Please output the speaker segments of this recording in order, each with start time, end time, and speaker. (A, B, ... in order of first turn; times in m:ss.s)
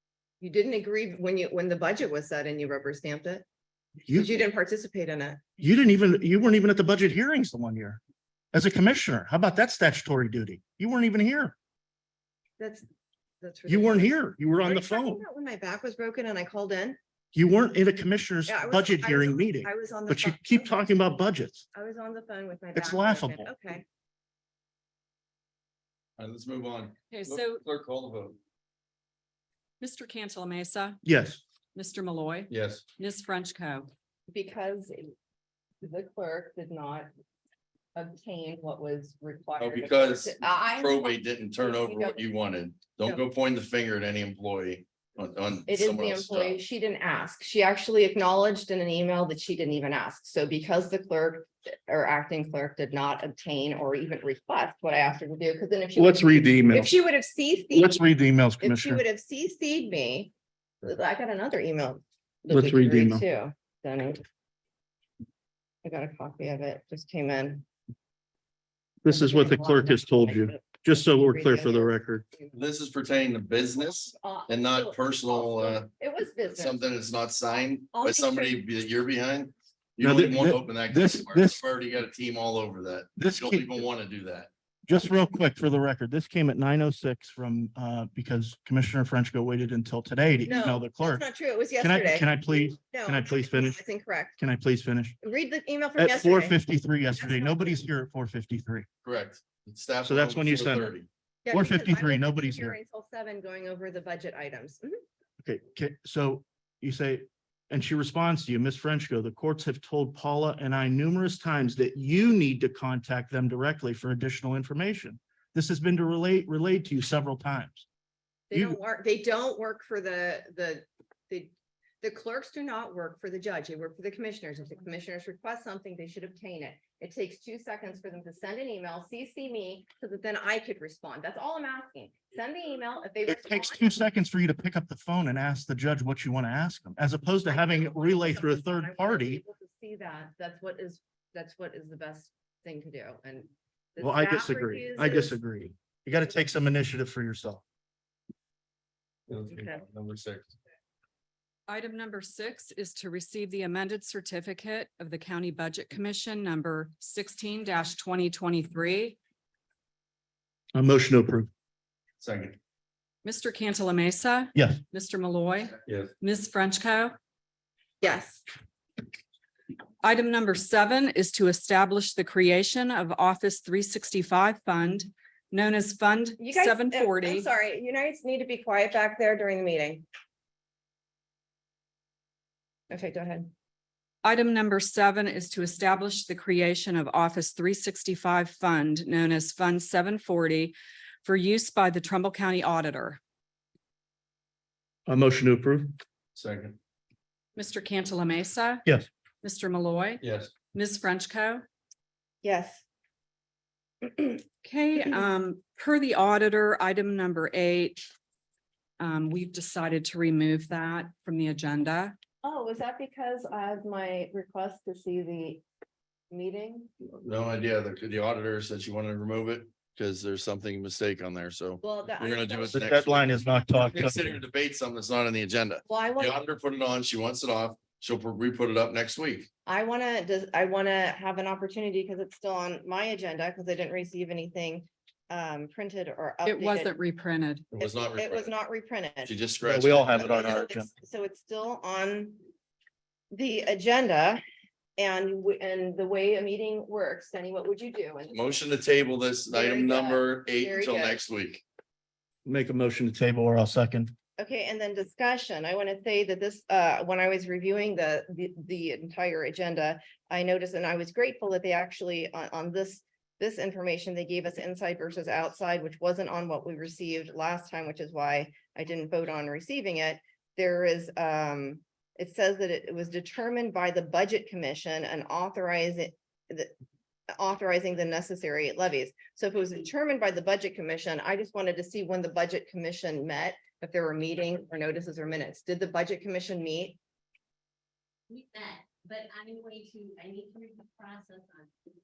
0:00.4-0:03.4 A
0:04.1-0:05.4 A
0:05.6-0:08.0 B
0:08.5-0:11.5 B
0:12.6-0:12.8 A
0:13.4-0:17.0 A
0:13.7-0:15.2 B
0:17.3-0:21.6 B
0:18.4-0:20.7 A
0:21.7-0:23.8 A
0:22.7-0:23.5 B
0:26.2-0:28.4 C
0:27.1-0:27.6 D
0:29.8-0:31.0 D
0:31.0-0:31.4 B
0:31.7-0:33.9 D
0:32.5-0:32.8 C
0:34.3-0:35.1 A
0:35.8-0:37.1 A
0:37.9-0:42.2 A
0:39.6-0:46.6 C
0:45.7-0:58.0 A
0:56.0-0:56.9 B
0:57.7-0:59.0 B
0:58.6-1:00.3 A
1:00.8-1:04.2 A
1:02.5-1:03.2 B
1:05.8-1:07.6 A
1:09.0-1:12.2 B
1:09.0-1:12.5 A
1:12.5-1:15.9 C
1:13.7-1:16.8 A
1:16.5-1:24.5 C
1:17.9-1:18.6 A
1:20.0-1:21.6 B
1:23.2-1:23.8 B
1:24.9-1:31.2 B
1:30.4-1:34.4 A
1:31.8-1:33.8 B
1:34.4-1:35.2 B
1:35.2-1:36.6 A
1:36.0-1:38.9 B
1:37.2-1:37.8 A
1:39.0-1:41.1 C
1:40.0-1:40.9 B
1:41.4-1:45.0 A
1:41.5-1:42.8 B
1:45.4-1:57.8 B
1:58.5-2:13.9 A
1:58.5-1:58.8 B
2:13.3-2:19.4 B
2:17.5-2:25.4 A
2:24.0-2:27.6 B
2:29.3-2:30.5 C
2:29.5-2:29.8 A
2:31.7-2:39.2 D
2:40.7-2:41.5 B
2:42.2-2:42.6 C
2:43.2-2:47.1 D
2:44.5-2:44.8 B
2:45.8-2:46.1 C
2:48.0-2:48.4 A
2:50.0-2:57.5 D
2:56.4-3:00.0 A
3:02.9-3:03.5 A
3:04.2-3:13.2 D
3:15.0-3:15.9 B
3:16.3-3:16.8 C
3:17.6-3:18.8 D
3:19.4-3:21.6 D
3:20.2-3:20.5 C
3:22.4-3:22.8 A
3:24.0-3:24.4 A
3:24.6-3:28.0 D
3:25.0-3:25.2 A
3:29.0-3:32.2 D
3:32.4-3:35.6 A
3:36.3-3:36.9 A
3:37.1-3:49.5 C
3:41.8-3:43.6 A
3:42.7-3:44.4 B
3:45.8-3:46.3 A
3:49.6-3:56.9 A
3:56.4-3:57.7 D
3:57.7-3:58.5 C
3:57.8-3:59.3 A
3:59.2-4:00.6 C
3:59.6-4:00.9 B
4:00.1-4:02.4 A
4:03.3-4:04.4 A
4:05.0-4:08.6 A
4:08.3-4:11.6 C
4:09.5-4:11.2 A
4:12.4-4:14.1 B
4:14.4-4:36.7 A
4:37.4-4:47.0 A
4:48.3-4:51.7 E